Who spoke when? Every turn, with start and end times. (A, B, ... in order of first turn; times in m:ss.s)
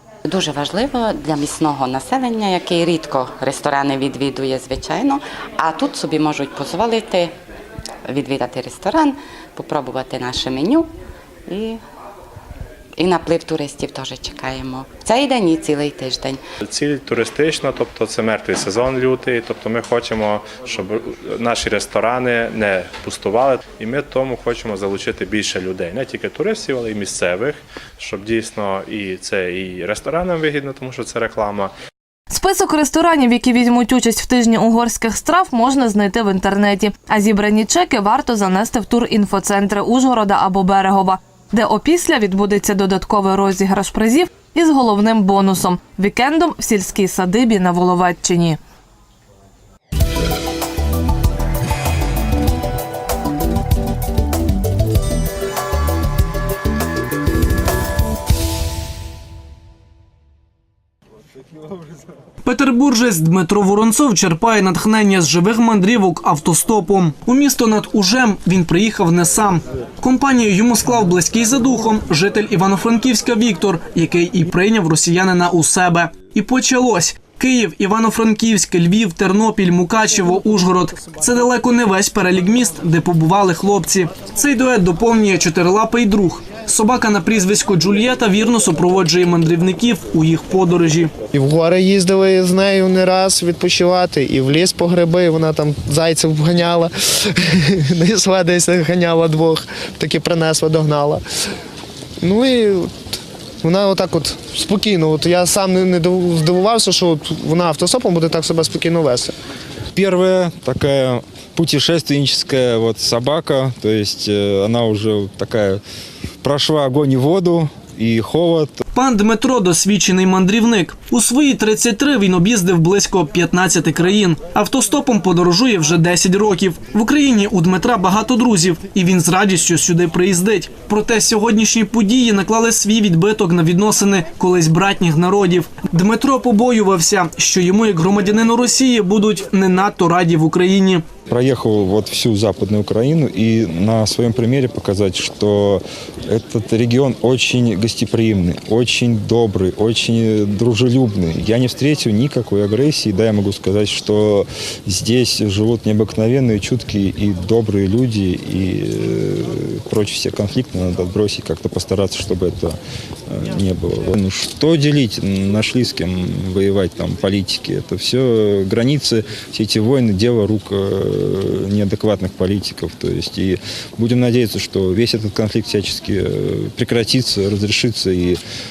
0:00.2-0:07.3 A
0:08.0-0:10.9 A
0:11.5-0:11.8 A
0:13.0-0:16.4 A
0:16.6-0:31.7 B
0:32.3-0:48.6 C
1:02.4-1:31.1 D
1:31.3-1:41.2 E
1:42.2-1:49.3 E
1:49.9-1:55.8 F
1:56.4-1:58.8 F
1:58.9-2:21.0 D
2:21.3-2:42.8 F
2:43.3-2:58.4 F